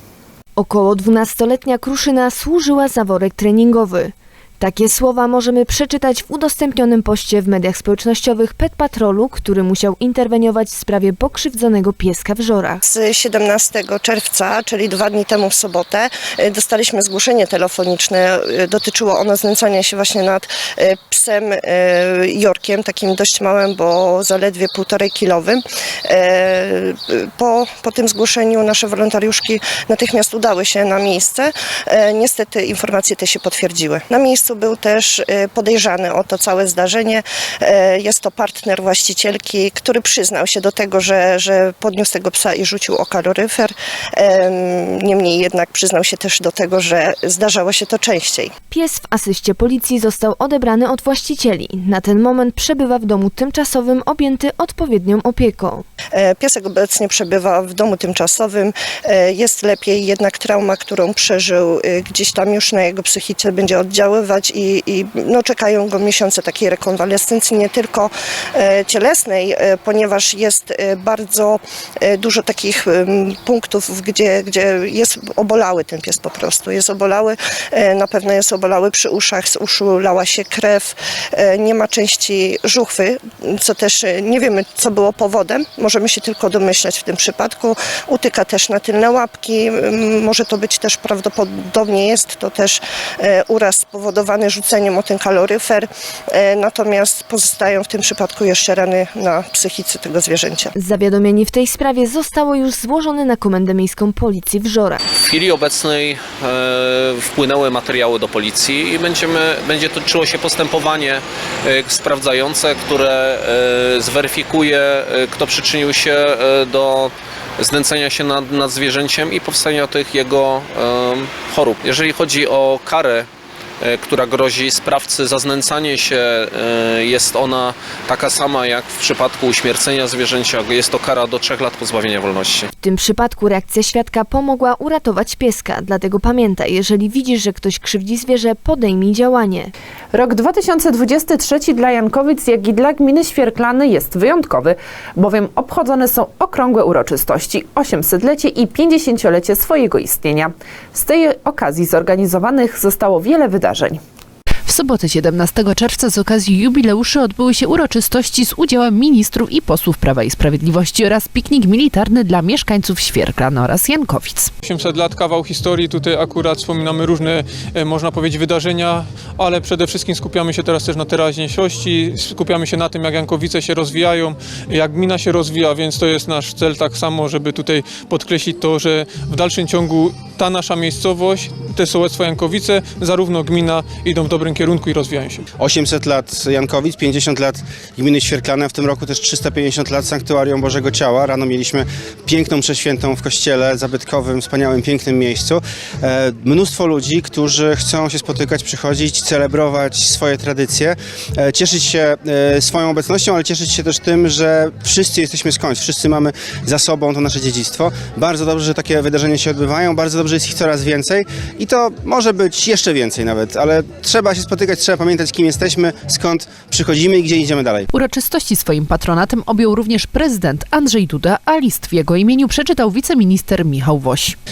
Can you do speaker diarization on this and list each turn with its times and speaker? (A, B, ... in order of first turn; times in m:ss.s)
0:00.6-0:12.8 A
0:12.8-0:48.5 B
0:48.7-0:55.9 A
0:56.1-1:40.7 B
1:40.8-1:45.0 A
1:45.2-2:03.3 C
2:03.8-2:12.7 C
2:12.8-2:19.7 A
2:20.1-2:34.0 D
2:34.7-2:44.5 E
2:44.6-3:05.4 F
3:05.6-3:37.9 G
3:37.9-3:44.4 E